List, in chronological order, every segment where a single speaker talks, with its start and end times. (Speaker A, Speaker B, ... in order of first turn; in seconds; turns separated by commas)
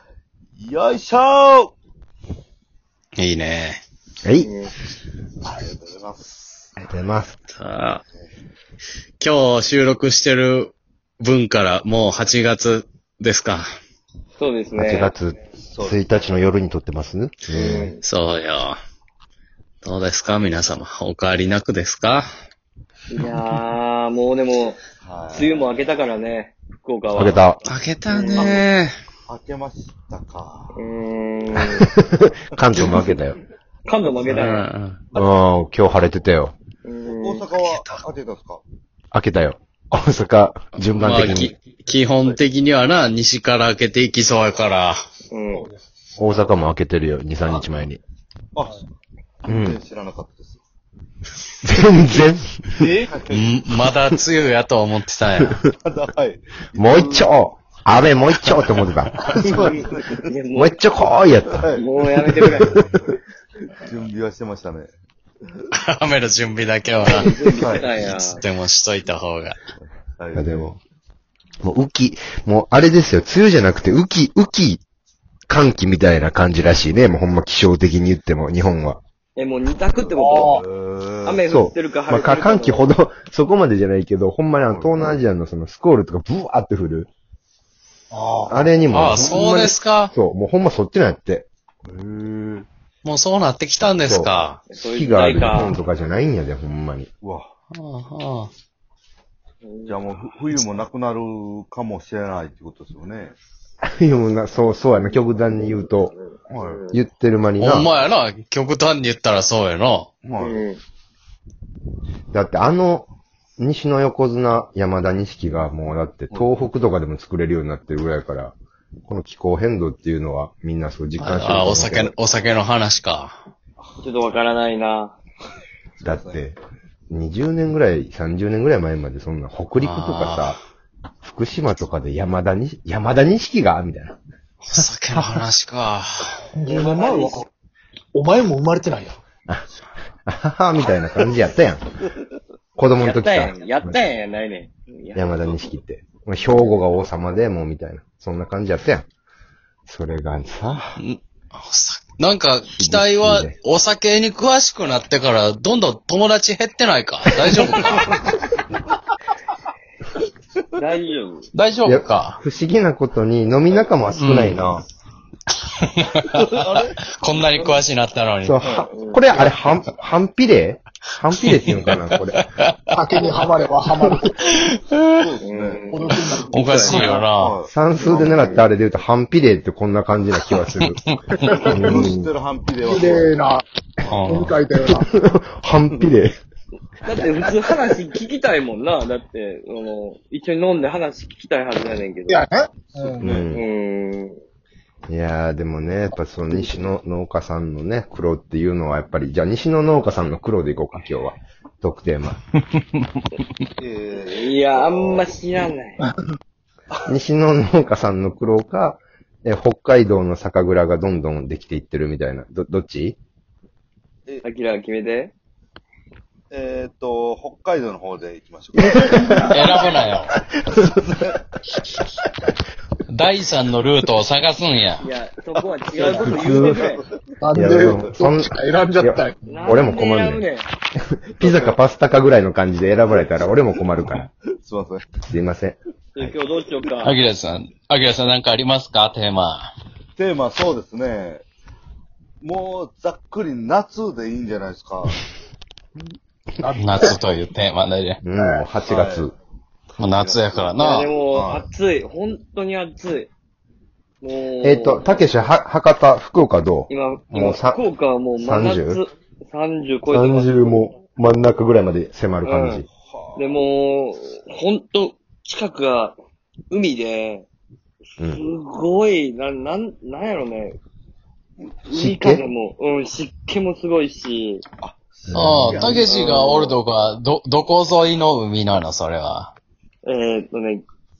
Speaker A: 0.6-1.7, Speaker B: 3.1-3.8, Speaker C: 4.2-4.5, Speaker D: 4.4-4.7, Speaker A: 5.4-6.7, Speaker C: 6.8-7.3, Speaker B: 7.5-8.0, Speaker B: 9.2-13.7, Speaker D: 14.4-15.1, Speaker C: 14.8-17.9, Speaker A: 15.6-16.0, Speaker D: 17.5-18.0, Speaker B: 18.0-18.8, Speaker B: 19.8-22.3, Speaker D: 23.1-24.8, Speaker A: 25.0-25.7, Speaker D: 25.3-27.4, Speaker C: 27.1-27.6, Speaker B: 27.6-28.9, Speaker D: 28.1-28.6, Speaker A: 28.4-28.6, Speaker A: 29.3-30.8, Speaker D: 30.7-31.8, Speaker C: 31.8-33.4, Speaker D: 33.9-34.6, Speaker A: 34.1-34.5, Speaker B: 34.3-35.0, Speaker C: 35.1-36.5, Speaker D: 36.8-37.5, Speaker A: 37.0-38.6, Speaker C: 39.1-41.5, Speaker B: 40.8-45.0, Speaker D: 45.3-45.7, Speaker E: 45.5-45.9, Speaker C: 46.2-48.0, Speaker A: 48.5-48.8, Speaker A: 49.4-50.6, Speaker C: 49.5-49.8, Speaker C: 51.6-52.9, Speaker E: 52.7-53.1, Speaker A: 53.1-53.6, Speaker B: 53.3-55.6, Speaker A: 55.8-57.3, Speaker C: 56.8-59.8, Speaker A: 59.4-60.3, Speaker D: 60.2-60.8, Speaker C: 60.5-62.9, Speaker A: 61.5-61.8, Speaker D: 61.8-62.7, Speaker A: 63.8-64.9, Speaker B: 65.7-69.6, Speaker D: 67.2-68.4, Speaker A: 67.5-67.9, Speaker A: 69.8-70.7, Speaker C: 70.3-70.8, Speaker C: 71.6-74.8, Speaker C: 75.5-79.0, Speaker D: 79.3-80.6, Speaker E: 80.0-80.6, Speaker A: 80.5-81.4, Speaker D: 81.2-82.9, Speaker C: 81.5-87.1, Speaker E: 88.1-88.7, Speaker C: 88.5-91.5, Speaker B: 88.9-90.1, Speaker A: 91.8-92.7, Speaker B: 93.0-94.6, Speaker C: 94.0-97.1, Speaker D: 94.7-95.8, Speaker A: 97.2-97.5, Speaker B: 97.7-98.5, Speaker D: 99.6-100.0, Speaker A: 99.8-103.3, Speaker C: 103.9-106.1, Speaker D: 106.0-107.0, Speaker A: 106.5-106.8, Speaker C: 106.9-107.9, Speaker B: 107.6-110.1, Speaker A: 110.2-110.6, Speaker D: 110.4-110.8, Speaker C: 112.3-113.1, Speaker C: 113.6-118.5, Speaker C: 119.1-122.1, Speaker B: 121.2-123.4, Speaker A: 123.8-124.3, Speaker D: 124.0-125.2, Speaker A: 126.0-126.4, Speaker C: 126.0-126.6, Speaker C: 127.1-130.6, Speaker B: 129.8-130.6, Speaker C: 131.2-134.2, Speaker B: 134.6-136.4, Speaker C: 134.8-135.4, Speaker E: 136.5-137.4, Speaker D: 136.7-137.4, Speaker E: 138.1-139.2, Speaker C: 140.3-141.8, Speaker C: 142.8-144.0, Speaker D: 143.0-145.6, Speaker C: 145.1-149.1, Speaker C: 149.9-151.0, Speaker B: 151.0-158.1, Speaker C: 152.7-153.5, Speaker A: 157.6-158.2, Speaker D: 160.8-161.5, Speaker B: 161.5-162.4, Speaker C: 161.8-164.8, Speaker B: 164.1-164.7, Speaker B: 165.8-168.6, Speaker A: 166.2-167.0, Speaker C: 168.4-172.4, Speaker D: 168.6-169.5, Speaker B: 171.4-173.4, Speaker E: 172.9-174.6, Speaker B: 174.1-175.2, Speaker A: 175.1-175.9, Speaker D: 175.4-177.2, Speaker E: 175.9-177.0, Speaker B: 176.5-177.6, Speaker A: 177.0-178.3, Speaker C: 177.7-181.0, Speaker D: 178.2-178.6, Speaker B: 180.5-181.5, Speaker E: 181.4-181.8, Speaker C: 181.7-182.3, Speaker A: 181.7-183.4, Speaker E: 182.8-183.6, Speaker B: 184.1-184.6, Speaker E: 184.2-185.1, Speaker C: 184.9-186.3, Speaker D: 187.0-192.4, Speaker E: 192.3-193.4, Speaker A: 193.0-193.5, Speaker C: 193.2-193.6, Speaker D: 193.5-194.4, Speaker C: 195.1-202.4, Speaker B: 202.7-203.4, Speaker A: 203.8-205.5, Speaker D: 204.2-206.0, Speaker C: 207.0-213.2, Speaker D: 214.4-215.3, Speaker A: 216.5-220.1, Speaker C: 219.0-219.5, Speaker B: 219.5-220.3, Speaker A: 220.7-221.4, Speaker B: 223.1-225.0, Speaker D: 225.0-227.0, Speaker A: 225.9-227.0, Speaker C: 226.0-226.8, Speaker E: 227.4-229.8, Speaker C: 227.5-230.4, Speaker D: 229.4-230.7, Speaker C: 230.9-234.2, Speaker A: 231.4-231.8, Speaker A: 234.5-235.2, Speaker C: 235.3-236.3, Speaker D: 236.1-237.1, Speaker B: 237.0-239.7, Speaker A: 240.2-241.4, Speaker A: 242.4-245.2, Speaker E: 246.6-247.2, Speaker B: 246.8-248.2, Speaker C: 248.2-249.3, Speaker A: 248.8-249.3, Speaker B: 250.0-251.1, Speaker A: 250.2-250.7, Speaker D: 250.8-253.3, Speaker A: 251.3-251.7, Speaker D: 254.2-255.2, Speaker C: 254.6-257.8, Speaker D: 256.9-260.6, Speaker C: 258.4-259.0, Speaker C: 260.1-262.9, Speaker D: 262.4-262.8, Speaker A: 263.0-263.5, Speaker D: 263.4-266.2, Speaker D: 266.7-267.5, Speaker D: 268.2-270.8, Speaker D: 271.9-274.6, Speaker C: 271.9-272.4, Speaker A: 274.8-275.6, Speaker C: 275.3-275.8, Speaker B: 275.3-279.5, Speaker E: 275.5-276.1, Speaker D: 276.1-276.8, Speaker D: 280.0-280.8